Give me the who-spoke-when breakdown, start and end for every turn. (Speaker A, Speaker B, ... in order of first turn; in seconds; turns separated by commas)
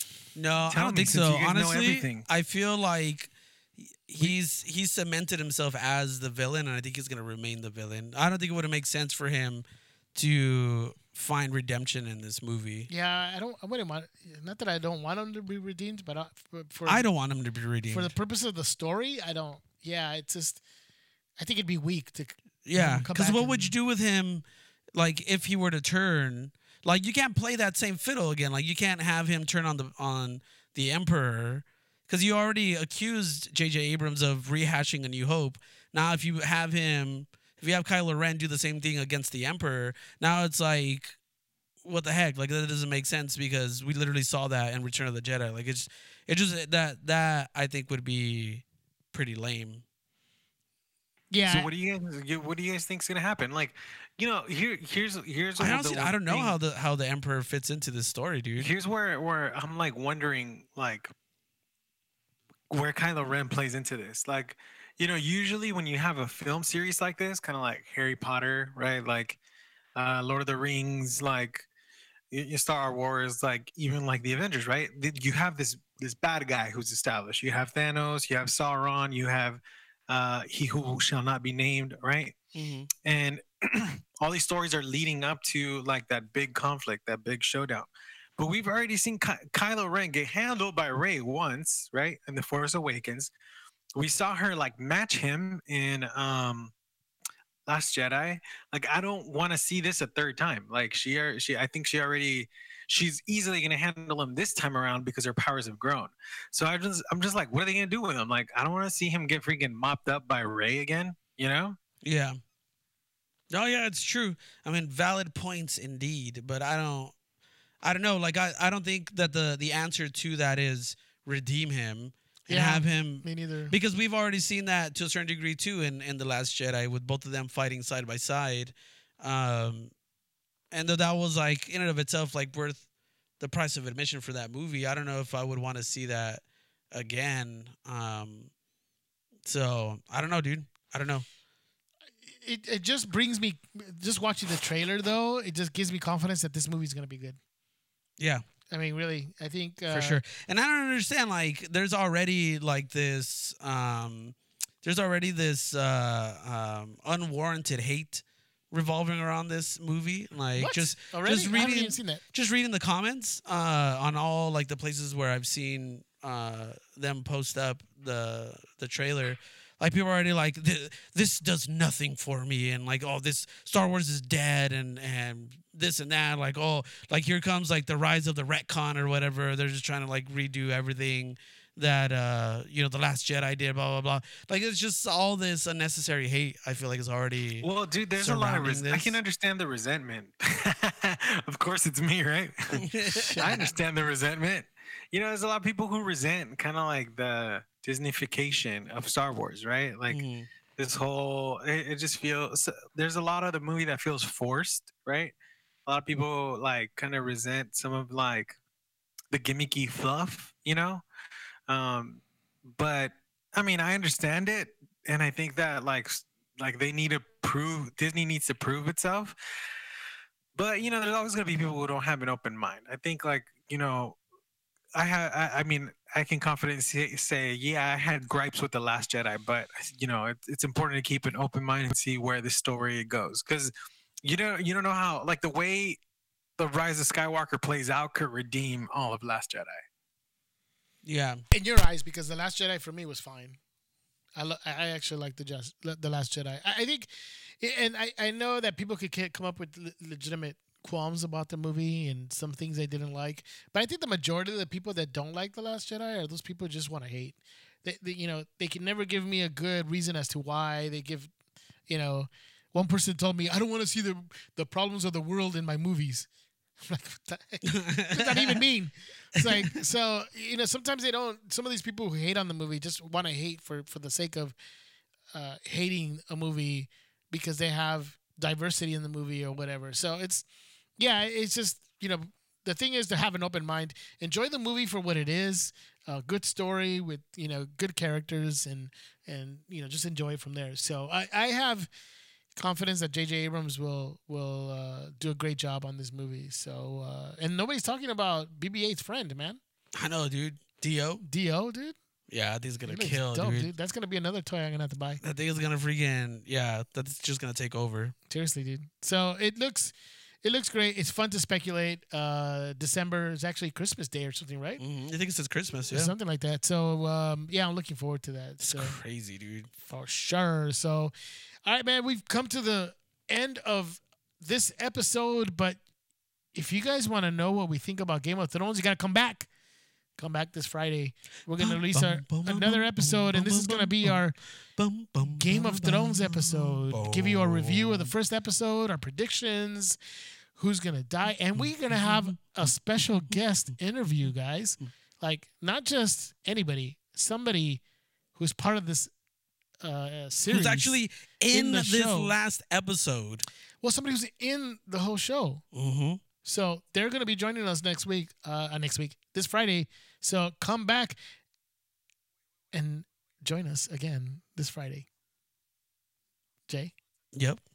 Speaker A: 0.3-12.9, Speaker B: 0.7-2.3, Speaker C: 12.9-17.1, Speaker A: 16.9-18.1, Speaker C: 17.9-20.6, Speaker C: 21.4-23.7, Speaker A: 22.6-41.1, Speaker A: 41.9-49.8, Speaker C: 51.3-51.7, Speaker B: 51.5-56.6, Speaker A: 55.6-58.7, Speaker B: 58.6-61.1, Speaker B: 62.7-69.4, Speaker B: 70.0-71.7, Speaker B: 72.3-82.4, Speaker A: 82.5-82.9, Speaker B: 83.0-93.3, Speaker B: 94.0-96.7, Speaker B: 97.7-111.8, Speaker A: 112.0-112.4, Speaker A: 113.5-117.1, Speaker A: 117.8-129.9, Speaker C: 122.5-123.7, Speaker A: 130.7-132.8, Speaker A: 133.4-138.5, Speaker A: 139.4-141.3, Speaker C: 142.4-147.4, Speaker A: 148.2-148.4, Speaker C: 148.7-150.2, Speaker A: 149.9-189.2, Speaker C: 160.6-162.2, Speaker B: 187.6-192.8, Speaker A: 192.7-193.7, Speaker C: 193.2-193.7, Speaker B: 193.4-200.2, Speaker A: 200.1-200.5, Speaker B: 200.8-205.3, Speaker B: 205.9-208.6, Speaker B: 209.3-211.0, Speaker B: 211.7-219.3, Speaker B: 220.6-224.2, Speaker B: 224.9-233.7, Speaker B: 234.2-236.0, Speaker B: 236.6-239.8, Speaker A: 241.1-241.4, Speaker C: 241.5-243.6, Speaker C: 244.4-247.1, Speaker C: 247.6-261.3, Speaker C: 261.9-266.3, Speaker C: 266.8-274.6, Speaker A: 267.6-268.6, Speaker A: 269.4-269.7, Speaker C: 275.3-280.4, Speaker C: 281.0-291.9, Speaker C: 292.6-299.6, Speaker A: 299.9-301.2, Speaker C: 301.2-301.9, Speaker A: 302.3-303.7, Speaker C: 302.9-305.2, Speaker A: 305.2-308.1, Speaker C: 308.3-314.8, Speaker A: 314.8-316.1, Speaker C: 315.9-318.9, Speaker A: 318.6-319.7, Speaker C: 319.8-321.1, Speaker C: 321.6-325.8, Speaker C: 326.5-329.5, Speaker C: 330.2-334.4, Speaker A: 331.6-334.2, Speaker A: 334.8-338.1, Speaker C: 335.3-340.0, Speaker C: 340.6-347.8, Speaker A: 341.6-342.7, Speaker C: 348.4-349.1, Speaker C: 349.8-350.9, Speaker A: 350.5-353.4, Speaker C: 351.5-352.4, Speaker C: 353.8-355.6, Speaker A: 355.7-356.2, Speaker C: 356.4-361.2, Speaker C: 362.7-365.1, Speaker C: 366.7-366.9, Speaker A: 367.4-367.6